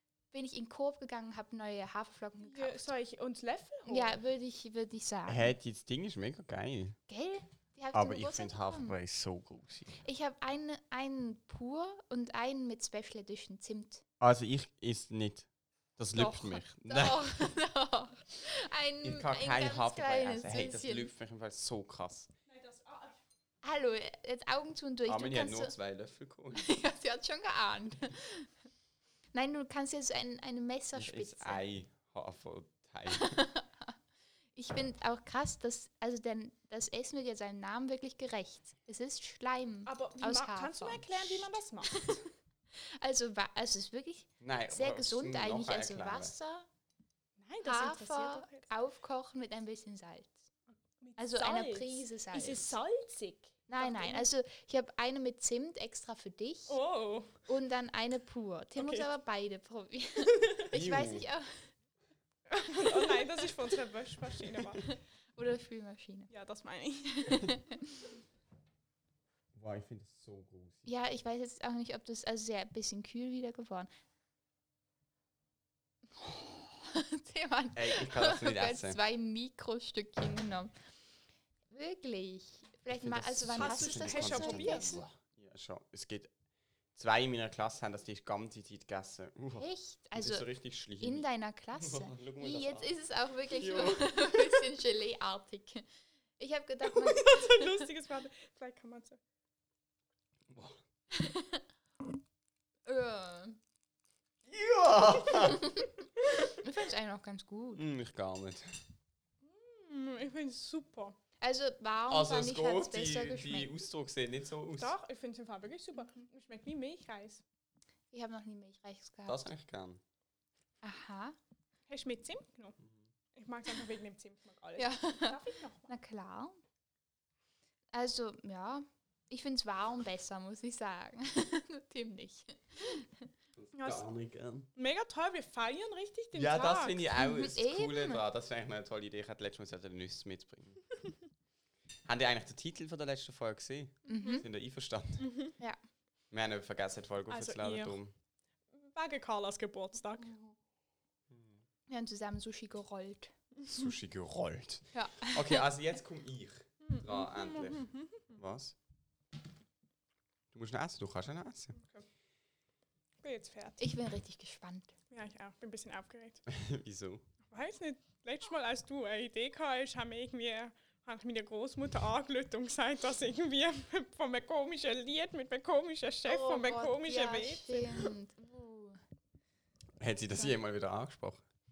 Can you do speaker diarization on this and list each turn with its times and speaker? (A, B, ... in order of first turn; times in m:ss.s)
0:00.3-0:02.9 A
0:02.4-0:04.2 B
0:03.9-0:05.5 A
0:05.3-0:07.0 C
0:07.1-0:09.0 A
0:07.9-0:10.0 C
0:10.0-0:14.0 A
0:14.2-0:17.5 C
0:16.1-0:21.1 A
0:19.0-0:22.3 C
0:22.5-0:23.2 B
0:23.6-0:25.7 A
0:25.1-0:26.7 C
0:26.6-0:28.5 A
0:29.3-0:31.6 A
0:31.0-0:33.4 C
0:33.1-0:33.9 A
0:34.6-0:42.2 A
0:39.9-0:42.3 B
0:42.8-0:46.7 A
0:44.4-0:46.3 C
0:47.4-0:48.7 B
0:47.6-0:50.4 A
0:51.0-0:54.3 B
0:51.2-0:52.7 A
0:53.7-0:56.8 A
0:56.7-0:57.3 B
0:57.5-1:01.5 A
0:58.8-0:59.1 B
1:00.7-1:01.3 C
1:02.5-1:05.0 B
1:05.4-1:06.3 A
1:06.3-1:07.4 B
1:07.2-1:07.8 A
1:09.6-1:10.9 C
1:10.9-1:13.9 A
1:16.2-1:20.7 A
1:17.8-1:19.0 C
1:21.7-1:25.1 A
1:23.0-1:26.3 C
1:23.5-1:25.0 B
1:27.0-1:31.2 C
1:29.6-1:30.5 A
1:31.0-1:35.9 A
1:31.8-1:32.9 C
1:33.6-1:34.5 C
1:36.4-1:37.9 A
1:36.9-1:39.2 B
1:40.5-1:40.8 C
1:41.1-1:41.6 A
1:42.8-1:43.6 A
1:44.5-1:45.9 C
1:45.4-1:45.9 A
1:46.6-1:47.8 A
1:47.8-1:48.7 C
1:49.4-1:51.2 B
1:51.4-1:53.7 A
1:52.1-1:54.9 C
1:54.8-1:57.4 B
1:58.1-1:59.5 A
1:59.3-2:00.0 C
2:00.8-2:01.4 A
2:01.9-2:02.8 B
2:03.4-2:05.9 B
2:04.8-2:06.6 A
2:07.9-2:13.2 A
2:13.6-2:14.7 C
2:13.8-2:14.0 B
2:14.8-2:17.0 B
2:16.4-2:21.0 C
2:17.2-2:18.2 A
2:22.1-2:25.3 C
2:24.1-2:24.4 A
2:25.2-2:25.5 B
2:26.3-2:28.1 C
2:27.3-2:28.0 B
2:28.8-2:30.3 B
2:30.2-2:30.5 A
2:31.9-2:33.3 A
2:33.7-2:38.8 C
2:34.9-2:35.6 A
2:36.8-2:38.2 B
2:40.5-2:41.8 C
2:41.8-2:42.0 B
2:43.2-2:43.8 B
2:43.8-2:44.9 A
2:45.1-2:46.4 B
2:46.5-2:47.2 C
2:47.5-2:58.1 B
2:56.2-2:59.0 A
3:00.0-3:01.4 C